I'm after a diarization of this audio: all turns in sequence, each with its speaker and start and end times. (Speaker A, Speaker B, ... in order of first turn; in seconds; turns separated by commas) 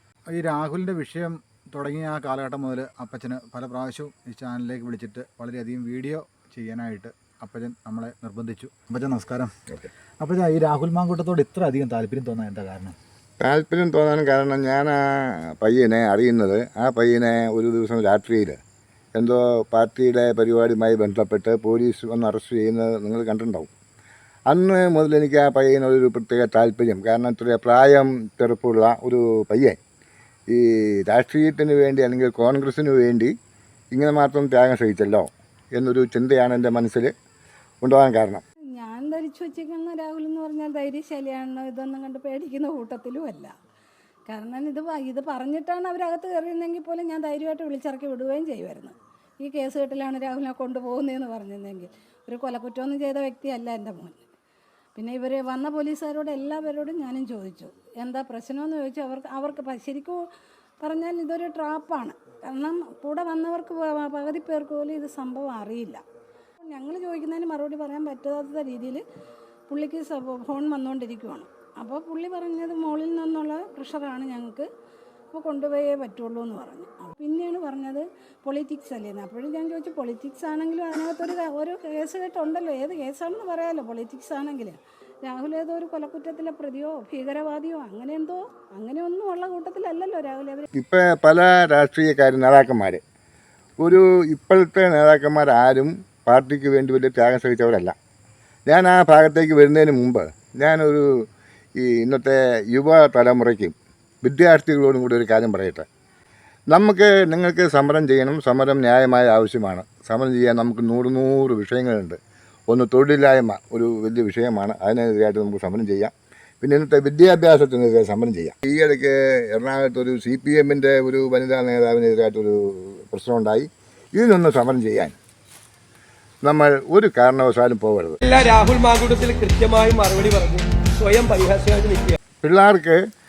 Speaker A: 0.3-9.5, Speaker A: 10.2-12.9, Speaker B: 13.4-18.6, Speaker B: 19.1-23.7, Speaker B: 24.5-29.8, Speaker B: 30.5-33.3, Speaker B: 33.9-37.1, Speaker B: 37.8-38.4, Speaker C: 38.7-43.5, Speaker C: 44.3-54.2, Speaker C: 55.0-60.2, Speaker C: 60.8-66.0, Speaker C: 66.7-69.0, Speaker C: 69.7-74.7, Speaker C: 75.3-90.7, Speaker B: 90.7-93.0, Speaker B: 93.8-97.9, Speaker B: 98.7-101.1, Speaker B: 101.8-105.9, Speaker B: 106.7-112.2, Speaker B: 112.7-125.1, Speaker B: 126.4-128.2, Speaker D: 128.2-132.2, Speaker B: 132.4-133.0